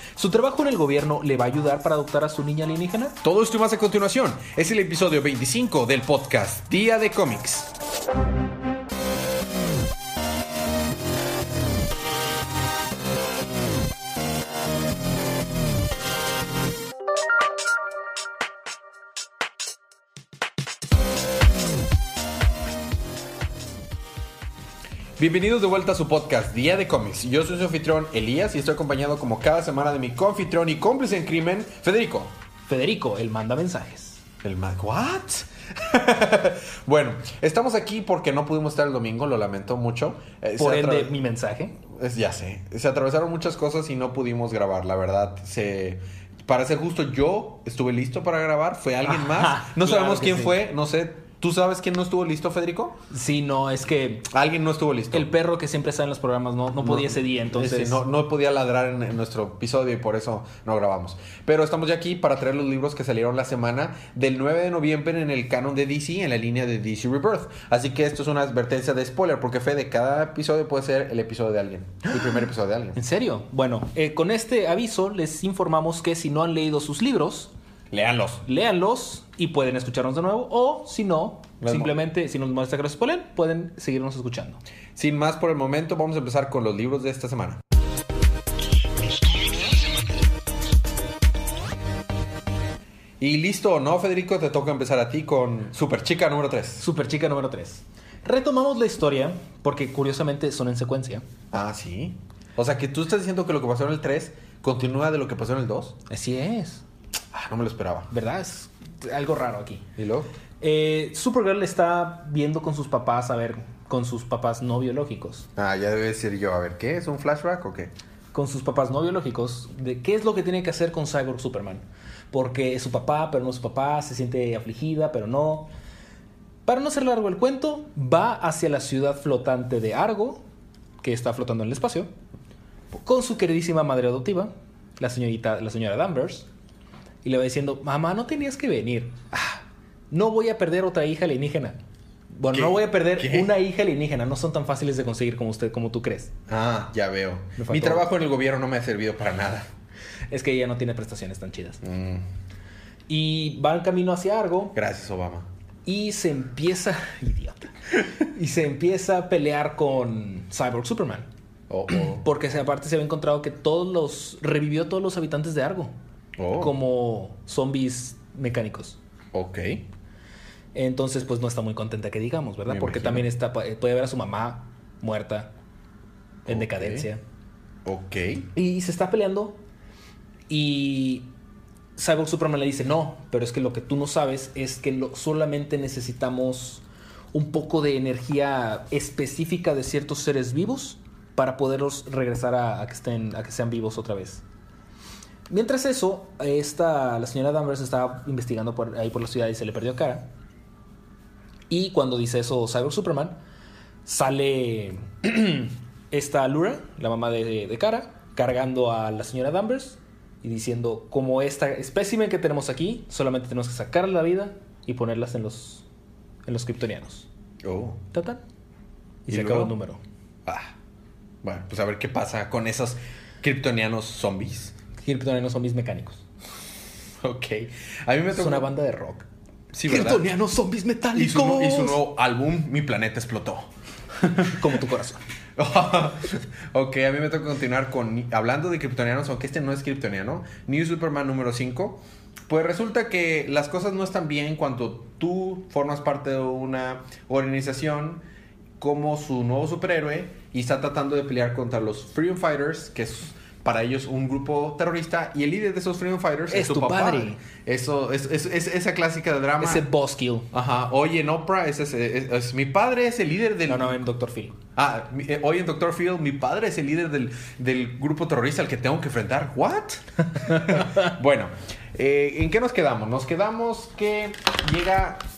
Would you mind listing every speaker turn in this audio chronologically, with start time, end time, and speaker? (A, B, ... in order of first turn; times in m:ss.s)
0:00.2-0:03.2 A
0:03.2-0:07.7 B
0:25.2-0:32.3 B
0:32.7-0:34.2 A
0:34.4-0:41.2 B
0:40.6-0:41.8 A
0:41.9-0:53.0 B
0:49.0-0:50.6 A
0:53.1-0:54.3 A
0:54.3-0:55.3 B
0:55.1-0:58.0 A
0:56.8-1:13.0 B
1:13.0-1:17.5 A
1:17.9-1:18.4 B
1:18.4-1:24.6 A
1:21.6-1:21.9 B
1:25.0-1:27.6 B
1:33.2-1:36.9 B
1:36.8-1:41.2 A
1:41.5-1:46.0 B
1:46.1-1:46.8 A
1:47.3-1:48.1 B
1:48.1-1:49.9 A
1:50.0-1:50.3 B
1:50.6-1:55.5 A
1:55.6-1:57.9 B
1:58.3-2:05.7 A
2:06.7-2:10.4 A
2:11.0-2:12.1 A
2:13.0-2:16.5 A
2:17.2-2:21.8 A
2:22.4-2:26.3 A
2:22.5-2:23.5 B
2:26.5-2:29.7 B
2:27.6-2:28.1 A
2:30.3-2:31.8 A
2:31.8-2:32.2 B
2:33.1-2:34.7 A
2:34.8-2:35.5 B
2:35.8-2:37.7 A
2:38.2-2:41.3 A
2:41.7-2:42.3 B
2:41.9-2:45.9 A
2:46.4-2:46.7 B
2:46.6-2:49.0 A
2:49.3-2:49.8 B
2:50.7-2:55.5 A
2:52.7-2:53.3 B
2:56.5-2:57.2 A
2:56.5-2:57.1 B
2:57.9-2:58.5 B
2:58.6-2:59.6 A
3:00.5-3:01.3 A
3:02.0-3:14.4 A
3:15.5-3:20.3 A
3:21.7-3:23.4 A
3:24.0-3:35.8 A
3:36.4-3:37.3 A
3:37.6-3:38.0 B
3:38.1-3:38.4 A
3:39.3-3:40.0 A
3:39.3-3:39.8 B
3:40.5-3:40.7 B
3:41.4-3:44.8 B
3:45.0-3:46.2 A
3:47.2-3:48.7 B
3:48.3-3:49.3 A
3:49.7-3:50.3 B
3:49.9-3:52.0 A
3:51.1-3:54.6 B
3:54.4-3:55.2 A
3:55.6-4:08.2 B
4:08.8-4:19.8 B
4:16.5-4:17.4 A
4:19.6-4:20.5 A
4:20.5-4:24.0 B
4:23.7-4:24.6 A
4:24.8-4:35.2 B